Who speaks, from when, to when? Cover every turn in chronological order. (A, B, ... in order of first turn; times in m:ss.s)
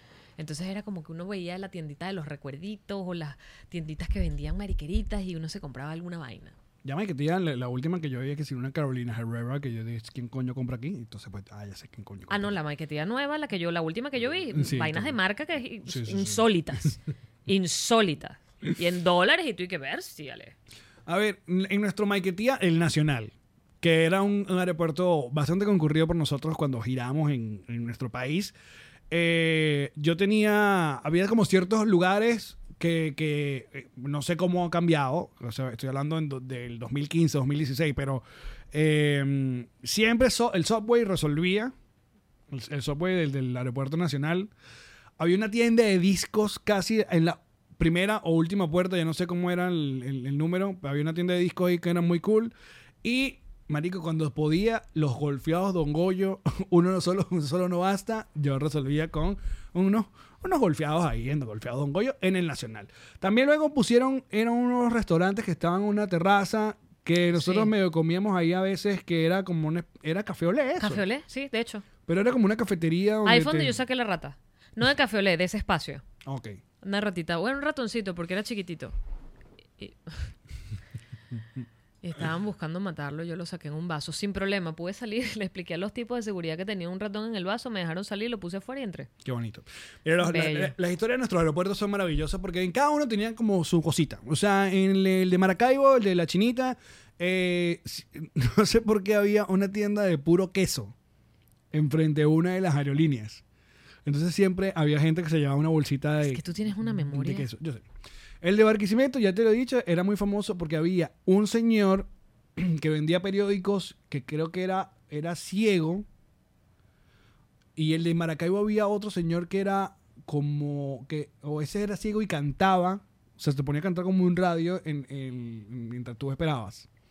0:00.4-0:06.5 A
0:06.8-0:12.6 B
0:12.3-0:20.6 A
0:14.5-0:15.2 B
0:15.8-0:16.5 B
0:21.1-0:28.6 B
0:29.1-0:41.7 B
0:42.5-0:44.5 B
0:45.2-1:11.0 B
1:07.3-1:07.7 A
1:10.8-1:11.8 A
1:12.1-1:13.8 B
1:13.2-1:16.0 A
1:16.2-1:16.6 B
1:16.8-1:19.0 A
1:19.8-1:20.3 A
1:22.0-1:29.1 A
1:29.2-1:41.0 B
1:30.2-1:30.8 A
1:41.7-1:43.4 B
1:44.0-1:47.8 B
1:46.2-1:47.5 A
1:48.4-1:56.1 B
1:57.8-2:06.9 B